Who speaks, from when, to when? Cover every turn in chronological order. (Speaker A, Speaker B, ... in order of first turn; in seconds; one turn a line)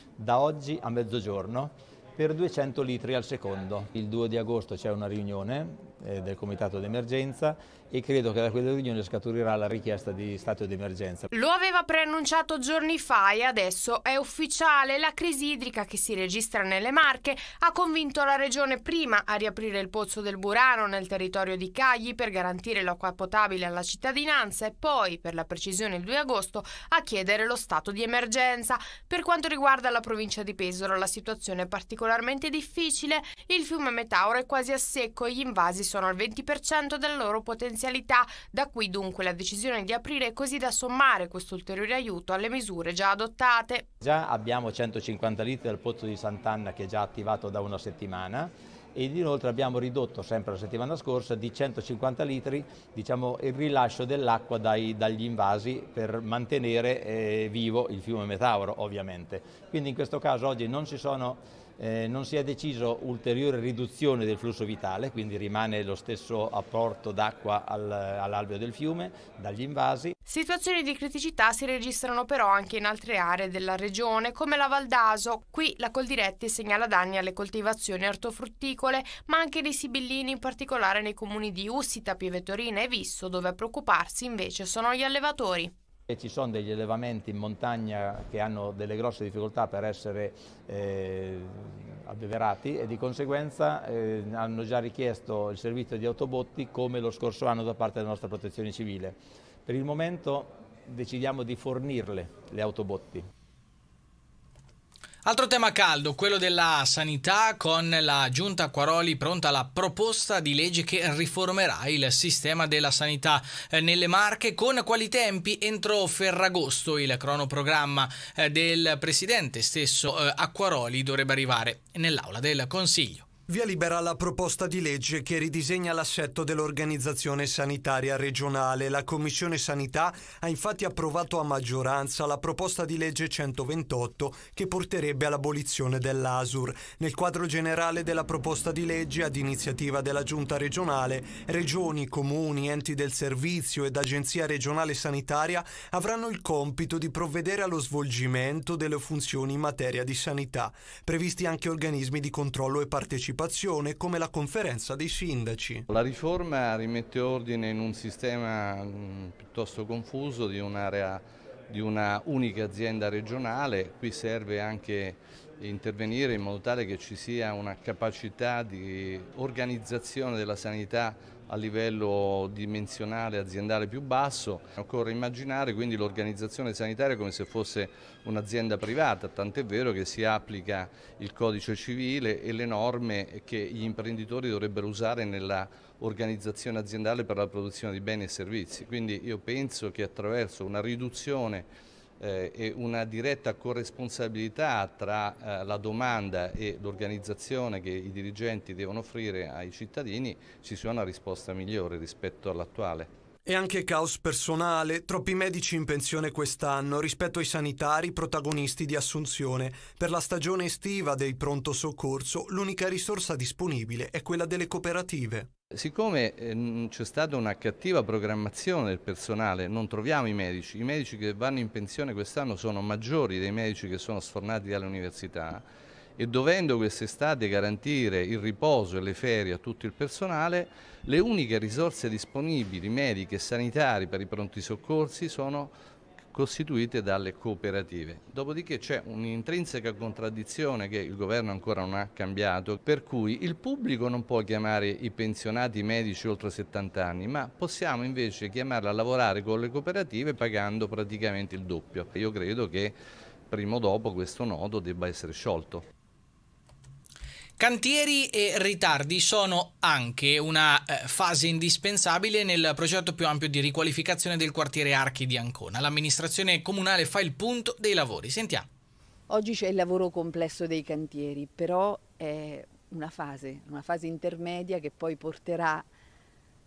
Speaker A: 0.2-11.3
Speaker B: 11.3-43.8
Speaker A: 44.0-70.2
Speaker B: 70.3-85.7
Speaker A: 86.1-91.5
Speaker A: 92.1-103.2
Speaker C: 105.2-123.2
Speaker D: 123.5-155.9
Speaker E: 155.9-191.7
Speaker E: 192.2-203.1
Speaker D: 203.4-215.5
Speaker E: 215.7-225.6
Speaker E: 226.2-235.7
Speaker E: 236.3-253.0
Speaker E: 253.5-255.8
Speaker C: 257.6-268.7
Speaker F: 269.3-275.9